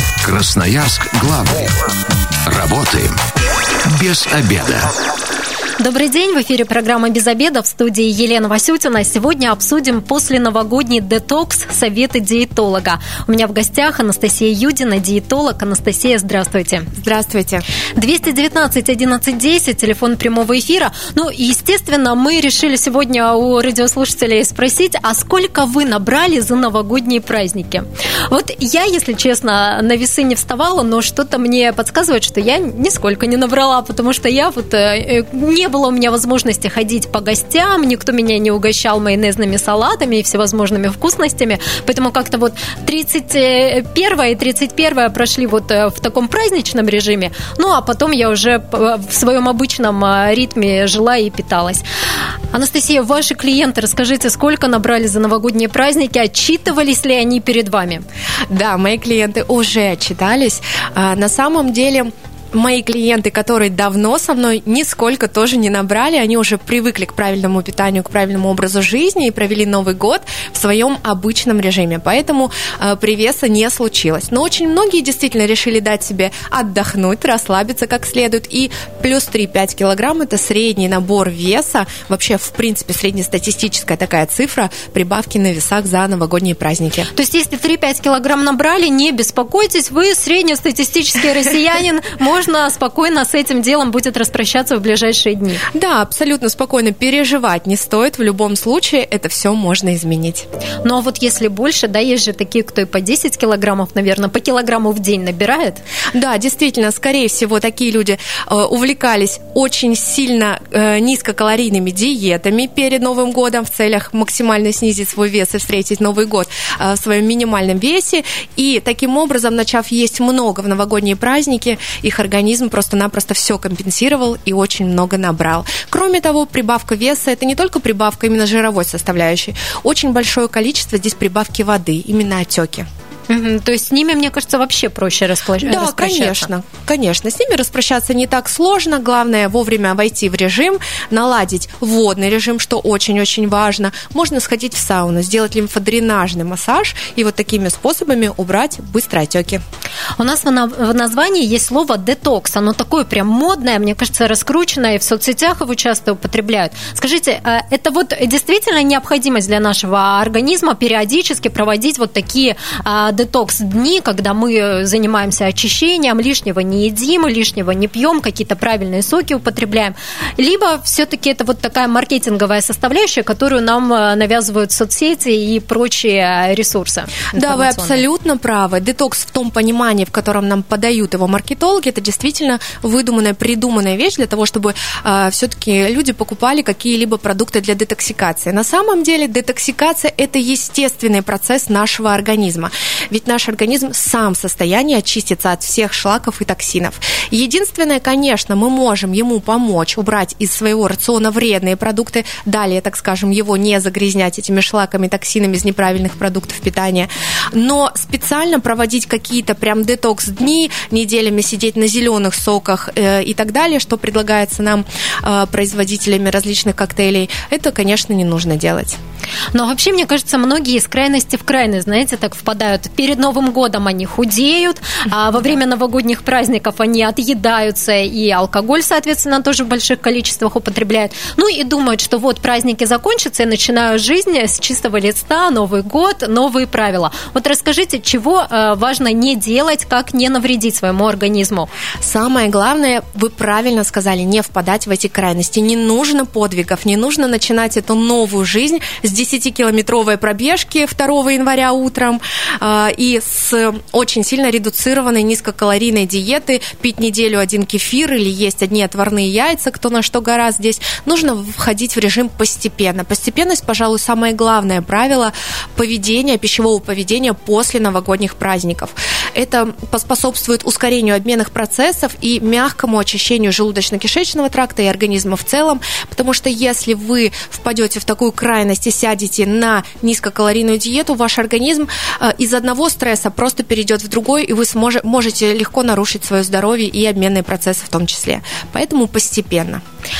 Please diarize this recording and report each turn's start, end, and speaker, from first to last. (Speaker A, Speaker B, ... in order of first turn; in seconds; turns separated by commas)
Speaker A: 0.2-1.8, Speaker A: 2.5-3.2, Speaker A: 3.9-4.9, Speaker B: 5.8-16.9, Speaker C: 17.0-17.6, Speaker B: 17.9-51.8, Speaker B: 52.5-58.0, Speaker C: 58.5-87.1, Speaker B: 87.1-95.6, Speaker C: 95.7-100.5, Speaker B: 100.8-105.8, Speaker C: 106.1-132.9, Speaker B: 133.3-136.5, Speaker C: 135.6-149.6, Speaker B: 150.2-178.0, Speaker C: 177.3-219.0, Speaker B: 219.5-241.7, Speaker C: 242.0-289.8